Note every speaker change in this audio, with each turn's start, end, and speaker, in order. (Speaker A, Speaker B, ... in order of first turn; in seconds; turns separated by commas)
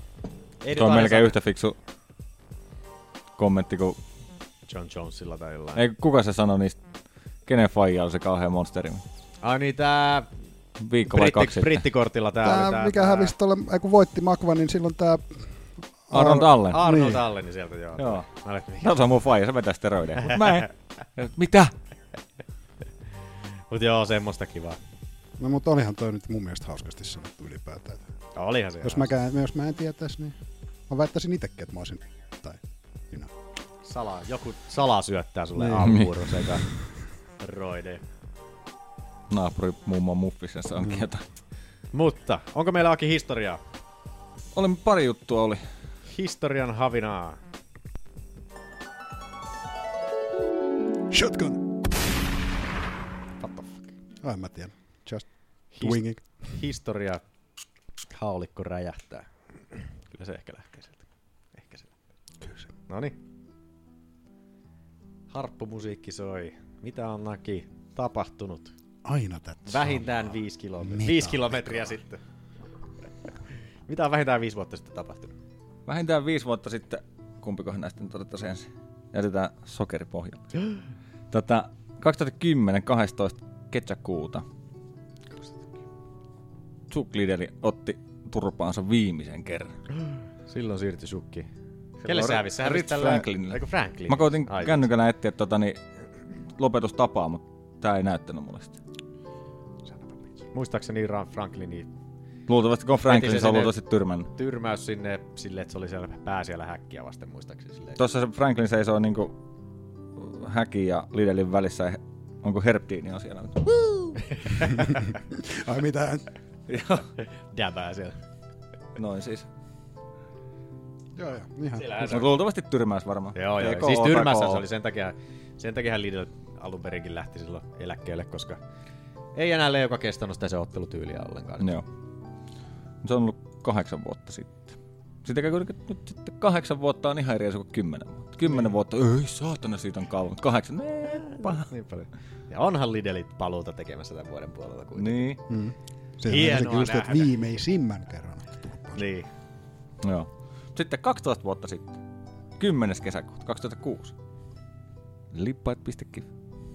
Speaker A: 0.6-1.4, Speaker B: 0.7-1.8, Speaker B: 3.4-4.0, Speaker A: 4.7-5.8, Speaker B: 5.8-6.8, Speaker B: 7.5-9.0, Speaker A: 9.4-10.3, Speaker B: 10.8-11.8, Speaker A: 11.1-13.3, Speaker C: 12.4-15.4, Speaker C: 16.1-17.2, Speaker B: 16.1-16.8, Speaker A: 16.7-18.9, Speaker B: 18.0-18.3, Speaker B: 18.8-21.7, Speaker A: 23.7-24.8, Speaker C: 25.4-28.1, Speaker A: 28.4-29.1, Speaker C: 28.8-30.4, Speaker C: 30.9-33.3, Speaker A: 33.8-36.6, Speaker C: 35.6-35.9, Speaker A: 37.4-38.0, Speaker B: 39.3-41.2, Speaker C: 40.8-41.0, Speaker A: 41.9-43.6, Speaker B: 44.5-45.6, Speaker A: 46.1-47.4, Speaker C: 51.1-51.7, Speaker A: 53.4-53.9, Speaker C: 54.2-55.3, Speaker A: 55.7-57.2, Speaker C: 55.8-56.2, Speaker A: 58.1-61.9, Speaker C: 62.4-62.7, Speaker A: 62.9-63.2, Speaker A: 65.3-68.7, Speaker C: 69.0-72.0, Speaker A: 69.7-72.2, Speaker A: 73.9-75.3, Speaker B: 75.9-80.6, Speaker B: 81.3-84.4, Speaker B: 86.9-89.7, Speaker A: 90.5-91.5, Speaker B: 92.0-95.8, Speaker A: 92.0-94.9, Speaker B: 96.6-98.8, Speaker A: 99.9-101.9, Speaker B: 102.5-104.3, Speaker A: 103.1-103.7, Speaker A: 104.3-108.0, Speaker B: 108.0-109.4, Speaker B: 110.2-113.7, Speaker A: 114.2-114.9, Speaker C: 115.0-116.3, Speaker B: 116.7-117.1, Speaker A: 117.2-118.2, Speaker B: 119.0-119.5, Speaker C: 121.1-122.1, Speaker A: 121.8-122.3, Speaker B: 122.0-124.7, Speaker A: 123.3-128.6, Speaker A: 129.3-131.8, Speaker B: 131.6-131.8, Speaker B: 133.0-141.7, Speaker A: 141.1-145.3, Speaker B: 145.0-145.4, Speaker C: 145.5-149.0, Speaker A: 146.3-147.3, Speaker A: 148.9-149.3, Speaker B: 150.0-152.0, Speaker B: 152.6-154.1, Speaker B: 155.3-156.3